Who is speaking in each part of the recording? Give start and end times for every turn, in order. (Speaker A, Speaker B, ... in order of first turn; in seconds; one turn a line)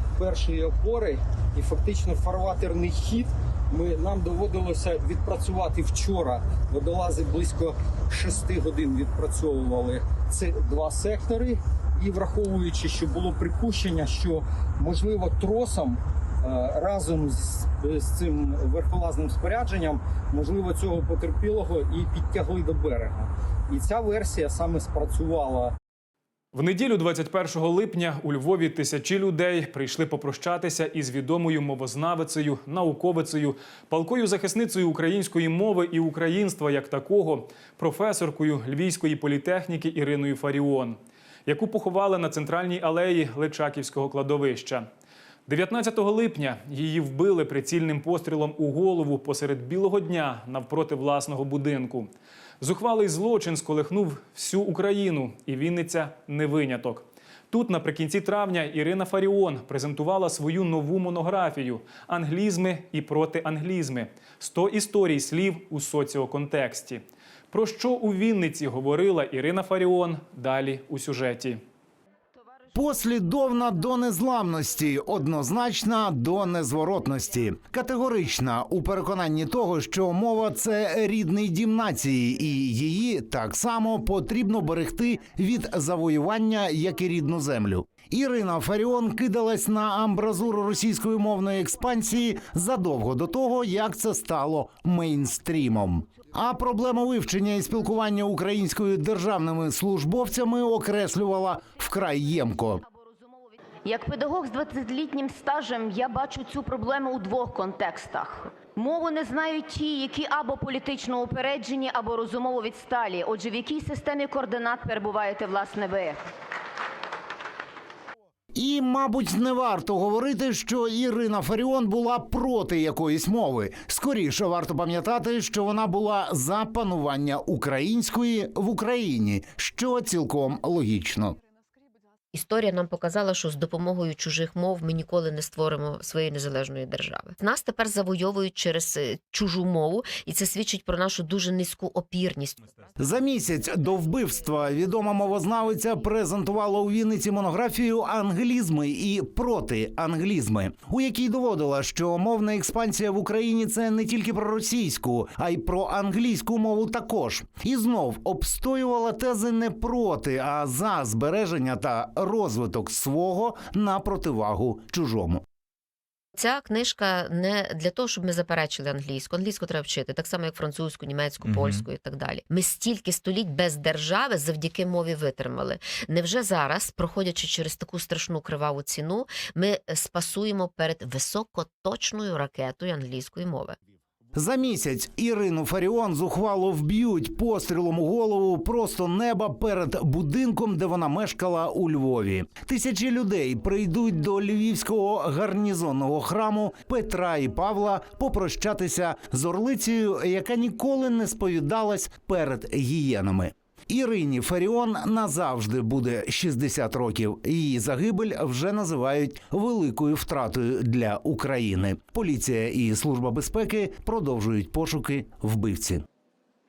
Speaker A: 0.2-25.7
Speaker B: 26.5-44.9
Speaker B: 45.5-52.1
Speaker B: 52.6-71.6
Speaker C: 72.7-102.8
Speaker D: 103.8-116.2
Speaker C: 118.5-131.4
Speaker E: 132.3-142.6
Speaker C: 143.0-165.4
Speaker E: 166.3-183.8
Speaker C: 184.3-216.0